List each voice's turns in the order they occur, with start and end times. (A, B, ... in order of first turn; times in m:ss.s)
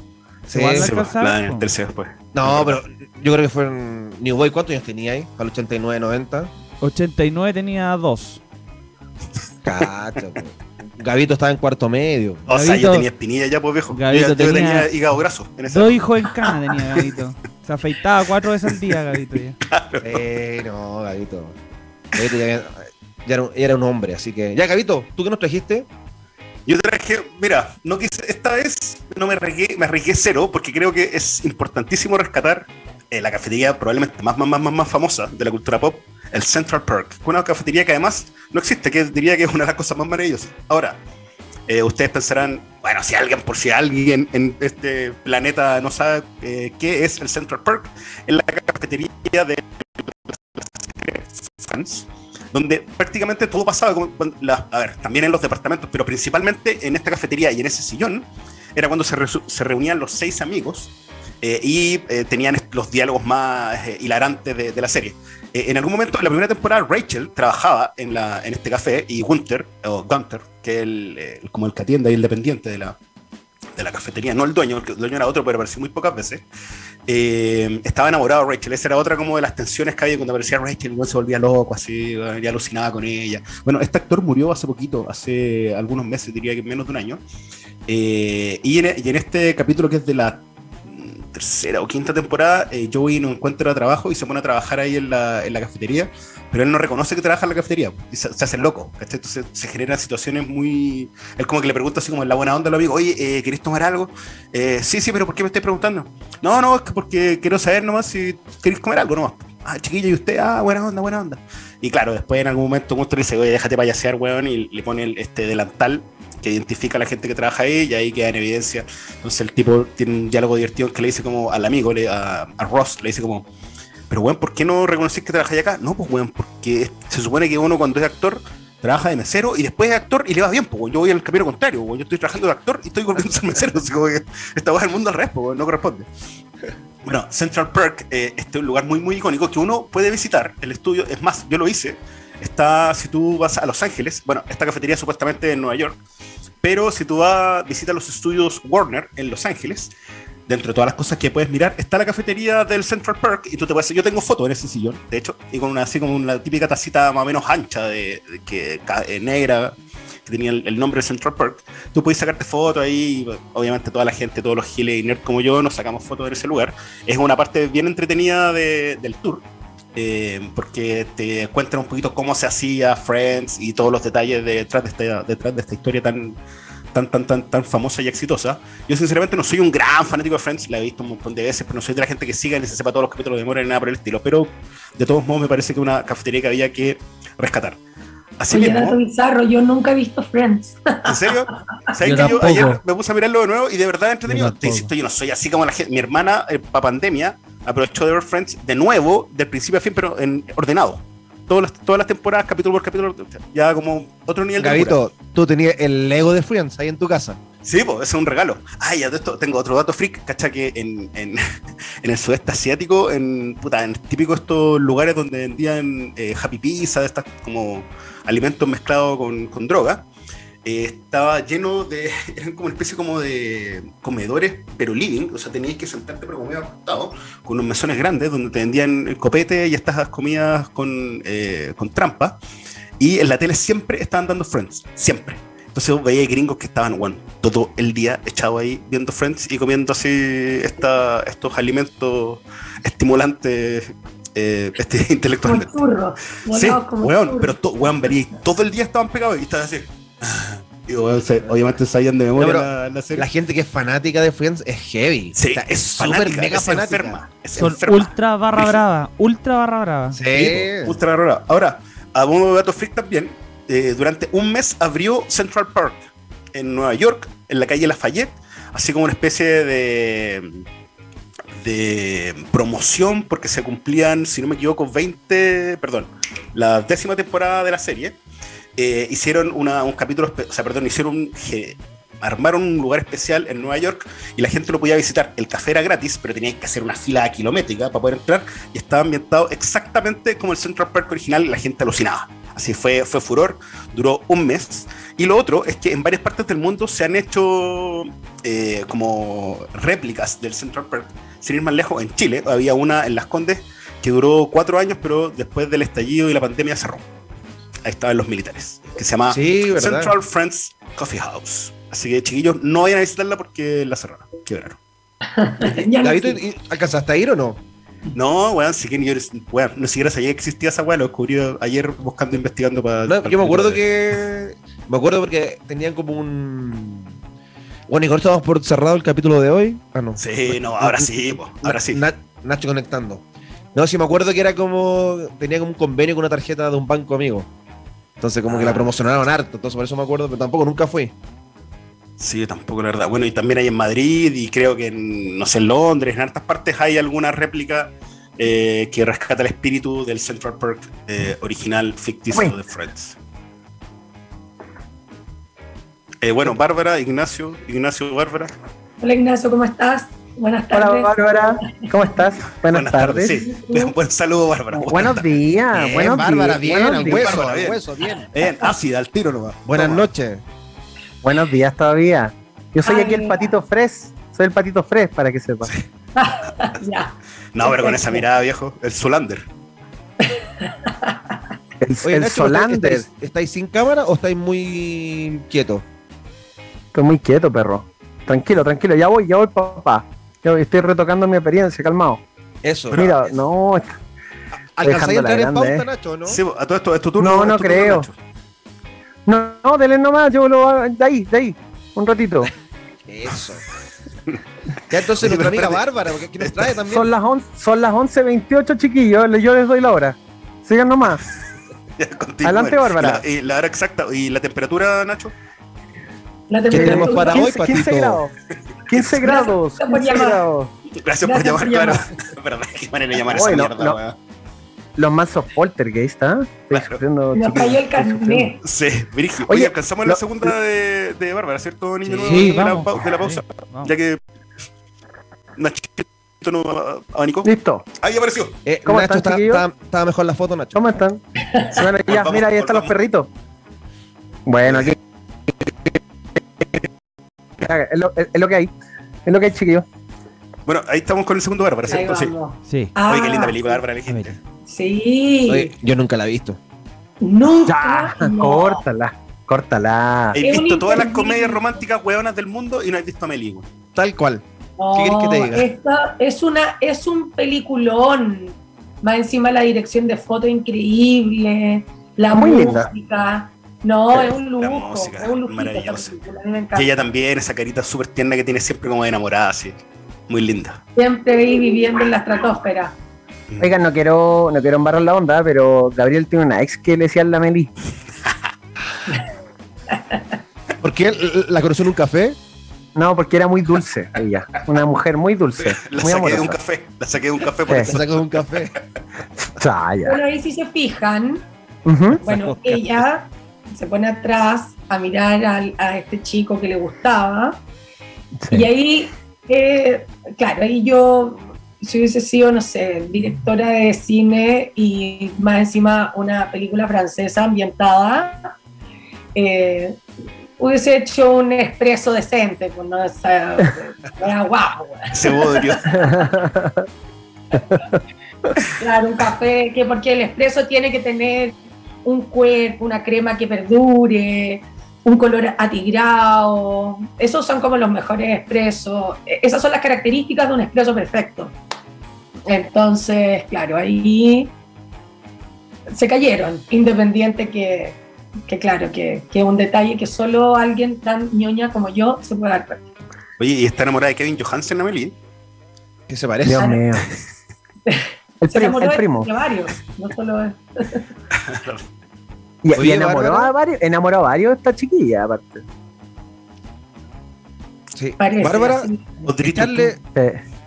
0:00.5-0:01.7 A
0:00.5-0:00.9 B
0:00.8-0:02.8 C
0:02.3-0:06.5 B
0:06.8-0:08.4 A
0:09.6-0:12.4 B
0:12.5-0:17.0 C
0:12.5-0:13.1 A
0:13.9-0:14.9 A
0:15.7-0:19.6 A
0:19.7-0:20.2 C
0:20.0-0:21.5 B
0:22.2-0:25.9 B
0:26.6-0:41.0 C
0:41.7-0:58.2 C
0:58.8-1:13.0 C
1:13.8-1:16.4 C
1:17.1-1:27.2 C
1:27.9-2:03.4 C
2:04.1-2:16.0 C
2:17.0-2:26.0 C
2:26.6-2:29.9 C
2:30.5-2:49.4 C
2:50.0-2:56.4 C
2:56.9-3:07.8 C
3:08.4-3:09.0 C
3:08.5-3:11.4 D
3:11.0-3:25.0 C
3:12.0-3:12.8 A
3:12.0-3:12.6 D
3:14.3-3:14.9 A
3:24.6-3:27.4 B
3:27.6-3:31.4 C
3:32.0-3:40.0 C
3:40.6-3:52.4 C
3:53.0-4:05.7 C
4:05.4-4:07.5 D
4:06.5-4:13.3 C
4:12.4-4:17.2 B
4:15.4-4:18.8 C
4:17.6-4:20.2 A
4:20.1-4:21.0 B
4:20.3-4:26.0 C
4:26.5-4:30.6 C
4:31.5-4:38.2 C
4:38.8-5:07.0 C
5:07.8-5:14.8 C
5:09.3-5:10.1 B
5:15.3-5:16.4 D
5:16.0-5:17.6 B
5:18.1-5:24.1 C
5:23.1-5:27.1 B
5:27.9-5:33.2 B
5:30.2-5:32.0 C
5:33.7-5:37.5 B
5:38.2-5:41.1 B
5:38.5-5:38.9 C
5:42.2-5:53.2 C
5:52.3-5:52.6 E
5:56.2-5:58.5 C
5:59.0-6:02.1 D
6:00.7-6:03.4 E
6:02.5-6:05.3 C
6:03.4-6:03.9 D
6:04.7-6:07.3 E
6:05.7-6:08.3 B
6:06.9-6:10.1 C
6:09.6-6:10.4 B
6:11.2-6:15.7 E
6:12.8-6:13.5 D
6:16.2-6:17.1 D
6:17.5-6:19.4 C
6:17.6-6:18.2 D
6:20.3-6:21.2 D
6:21.8-6:23.0 E
6:22.0-6:25.8 B
6:26.9-6:32.2 E
6:32.6-6:33.2 B
6:32.9-6:33.3 C
6:32.9-6:34.0 E
6:34.5-6:36.4 B
6:34.8-6:35.8 E
6:36.3-6:38.1 C
6:37.2-6:38.1 E
6:39.2-6:42.5 E
6:43.1-6:43.6 B
6:44.9-6:47.1 B
6:45.2-6:46.8 C
6:46.9-6:51.2 E
6:52.0-6:55.3 C
6:52.4-6:53.2 E
6:56.5-6:57.5 D
6:56.7-6:58.2 B
6:56.7-6:58.3 E
6:58.9-7:00.7 E
6:58.9-6:59.2 C
6:59.2-7:00.4 D
7:01.0-7:04.1 C
7:01.2-7:02.0 D
7:03.3-7:04.0 E
7:05.0-7:08.5 E
7:06.7-7:07.0 C
7:07.3-7:08.6 D
7:08.6-7:14.2 C
7:09.4-7:10.5 E
7:12.2-7:13.9 A
7:15.6-7:18.6 C
7:17.4-7:17.8 E
7:18.6-7:20.8 B
7:18.8-7:19.6 E
7:20.7-7:21.2 E
7:21.5-7:21.8 D
7:21.7-7:23.3 E
7:22.1-7:23.0 C
7:24.4-7:25.0 E
7:27.6-7:28.7 E
7:29.2-7:29.8 E
7:30.7-7:32.3 C
7:31.9-7:33.7 D
7:32.7-7:32.9 A
7:33.1-7:34.4 C
7:34.1-7:34.4 A
7:34.7-7:35.7 D
7:35.5-7:36.6 B
7:37.2-7:38.8 D
7:37.7-7:40.4 E
7:40.3-7:43.6 C
7:40.4-7:41.6 D
7:43.9-7:45.7 B
7:44.8-7:56.9 D
7:52.3-7:52.9 E
7:54.4-7:56.2 C
7:56.7-7:59.8 C
8:00.3-8:00.8 C
8:01.0-8:02.9 D
8:03.5-8:03.7 C
8:03.6-8:07.7 E
8:09.9-8:10.2 D
8:10.8-8:12.4 B
8:13.0-8:16.6 E
8:15.6-8:18.4 C
8:17.7-8:18.7 B
8:19.4-8:20.2 E
8:20.0-8:21.4 D
8:21.8-8:22.2 E
8:22.2-8:27.6 D
8:22.3-8:22.7 B
8:28.4-8:28.7 E
8:28.5-8:38.5 D
8:39.3-8:40.0 D
8:40.6-8:46.1 D
8:45.1-8:45.9 C
8:45.9-8:46.8 E
8:47.7-8:48.0 E
8:48.7-9:01.5 D
9:02.5-9:04.5 D
9:05.9-9:12.8 D
9:13.4-9:15.1 C
9:16.1-9:16.7 B
9:16.4-9:17.0 E
9:16.5-9:16.8 D
9:17.8-9:21.0 D
9:18.4-9:19.3 E
9:21.4-9:21.8 C
9:22.6-9:25.6 E
9:22.7-9:23.5 B
9:27.9-9:28.9 B
9:28.2-9:29.2 D
9:29.3-9:29.9 C
9:29.4-9:30.0 B
9:30.1-9:30.4 E